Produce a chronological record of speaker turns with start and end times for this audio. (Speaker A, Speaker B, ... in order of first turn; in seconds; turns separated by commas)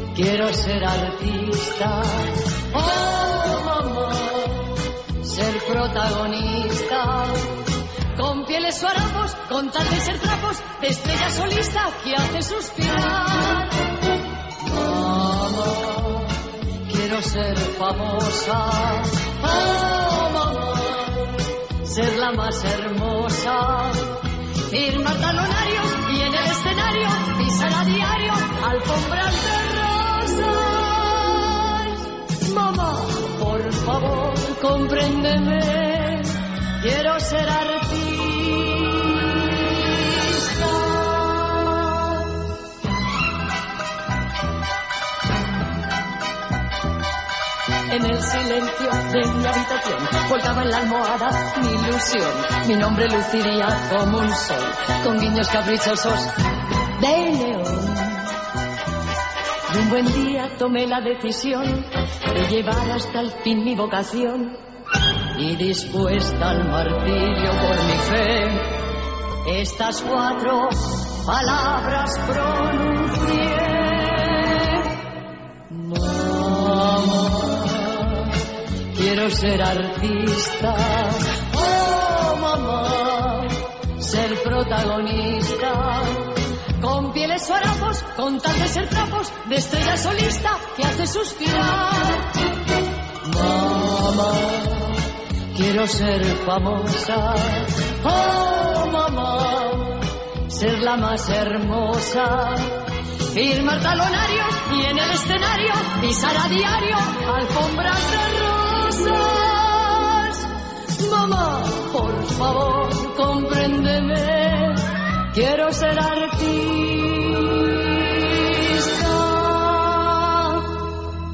Speaker A: 0.1-42.5, Speaker A: 47.9-56.3, Speaker A: 57.0-58.3, Speaker A: 59.7-64.6, Speaker A: 65.4-68.8, Speaker A: 69.5-75.0, Speaker A: 75.7-92.5, Speaker A: 93.2-120.8